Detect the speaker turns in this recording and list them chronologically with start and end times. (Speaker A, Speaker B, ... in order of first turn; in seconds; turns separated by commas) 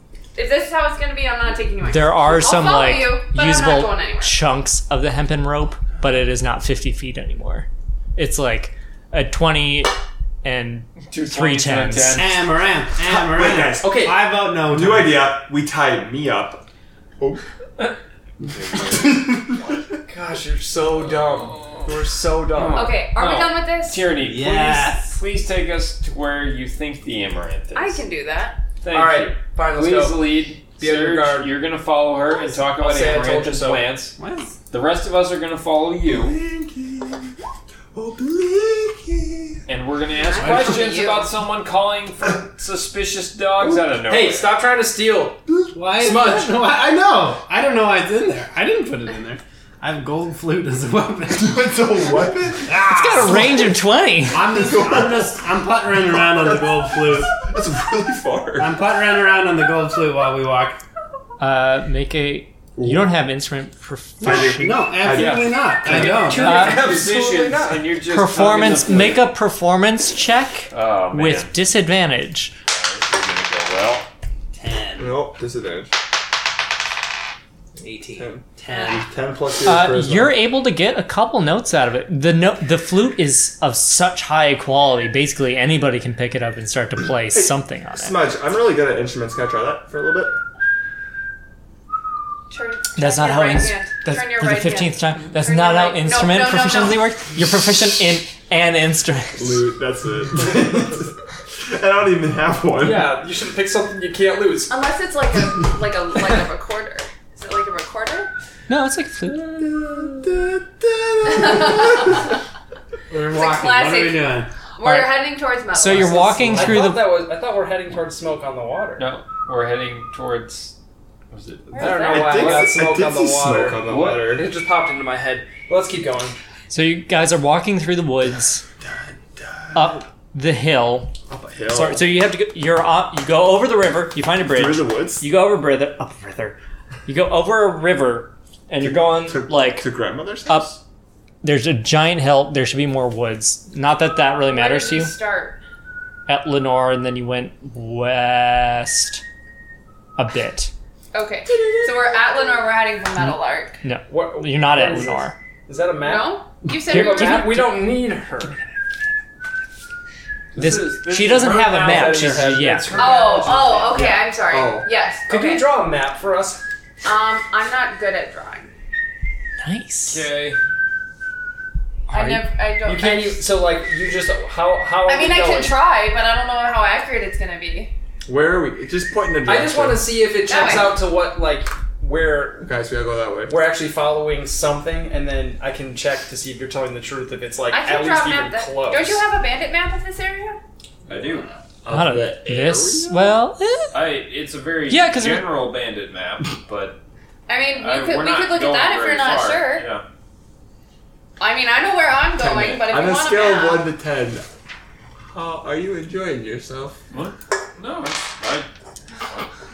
Speaker A: 0.3-4.4, Speaker B: 1.8-12.4, Speaker C: 11.1-12.3, Speaker D: 12.1-15.3, Speaker E: 13.0-16.6, Speaker F: 13.8-14.2, Speaker D: 18.5-19.0, Speaker E: 18.8-19.6, Speaker F: 20.1-23.0, Speaker C: 22.5-28.0, Speaker A: 22.7-24.1, Speaker D: 24.2-25.1, Speaker A: 27.7-28.6, Speaker C: 28.8-34.1, Speaker F: 28.9-31.6, Speaker F: 32.5-34.0, Speaker D: 34.2-34.6, Speaker C: 34.7-36.4, Speaker E: 36.0-37.3, Speaker E: 37.9-39.6, Speaker C: 39.7-44.6, Speaker A: 40.1-41.3, Speaker D: 40.4-40.9, Speaker F: 44.0-45.4, Speaker E: 45.5-45.7, Speaker D: 45.7-51.8, Speaker F: 45.9-46.5, Speaker E: 51.4-53.6, Speaker D: 52.6-53.6, Speaker B: 52.8-54.5, Speaker D: 54.3-57.3, Speaker E: 54.5-58.8, Speaker D: 58.6-60.8, Speaker B: 61.4-65.0, Speaker E: 62.8-63.1, Speaker E: 64.2-65.9, Speaker D: 64.2-66.6, Speaker C: 65.1-69.3, Speaker F: 65.8-67.9, Speaker B: 66.4-66.9, Speaker B: 67.9-72.5, Speaker C: 70.7-71.5, Speaker C: 72.7-74.1, Speaker D: 74.5-75.2, Speaker E: 75.0-75.9, Speaker D: 77.8-79.1, Speaker E: 78.2-80.4, Speaker B: 79.6-88.2, Speaker E: 87.3-90.4, Speaker A: 92.5-97.1, Speaker B: 93.0-99.7, Speaker E: 99.4-103.2, Speaker F: 102.8-104.7, Speaker A: 104.7-108.3, Speaker B: 108.7-109.7, Speaker E: 109.4-112.0, Speaker A: 111.2-112.2, Speaker D: 113.1-114.5, Speaker A: 113.3-116.7, Speaker B: 114.8-115.2, Speaker B: 115.7-117.2, Speaker F: 115.9-119.1, Speaker C: 119.0-120.7, Speaker C: 121.3-122.0, Speaker A: 121.7-122.7, Speaker F: 121.7-126.4, Speaker E: 122.0-124.5, Speaker C: 123.9-124.3, Speaker B: 126.7-128.6, Speaker E: 128.8-129.9, Speaker B: 129.7-131.1, Speaker E: 131.3-132.1, Speaker B: 131.7-139.9, Speaker E: 134.4-135.3, Speaker E: 138.8-140.8, Speaker B: 140.4-140.7, Speaker B: 141.4-145.1, Speaker A: 144.5-145.6, Speaker B: 146.3-149.2, Speaker B: 150.2-150.7, Speaker A: 151.1-153.8, Speaker B: 153.8-155.3, Speaker F: 154.1-158.6, Speaker A: 156.0-157.4, Speaker B: 156.7-158.5, Speaker C: 160.5-163.9, Speaker B: 160.5-163.0, Speaker F: 161.4-164.2, Speaker A: 162.9-165.7, Speaker E: 164.3-164.9, Speaker F: 165.3-166.6, Speaker A: 167.0-168.7, Speaker B: 169.6-170.2, Speaker C: 170.1-170.6, Speaker A: 172.1-173.4, Speaker F: 172.1-175.7, Speaker A: 175.0-177.9, Speaker E: 178.2-180.1, Speaker F: 179.4-182.7, Speaker A: 180.4-181.0, Speaker E: 182.6-183.6, Speaker F: 183.5-189.2, Speaker A: 187.7-190.6, Speaker C: 191.1-191.5, Speaker E: 191.8-193.4, Speaker B: 191.9-194.0, Speaker C: 193.9-197.0, Speaker B: 194.9-195.6, Speaker A: 197.5-199.9, Speaker C: 197.7-200.0, Speaker A: 201.4-203.9, Speaker E: 202.4-204.4, Speaker E: 205.3-207.0, Speaker C: 207.1-208.7, Speaker C: 209.2-209.5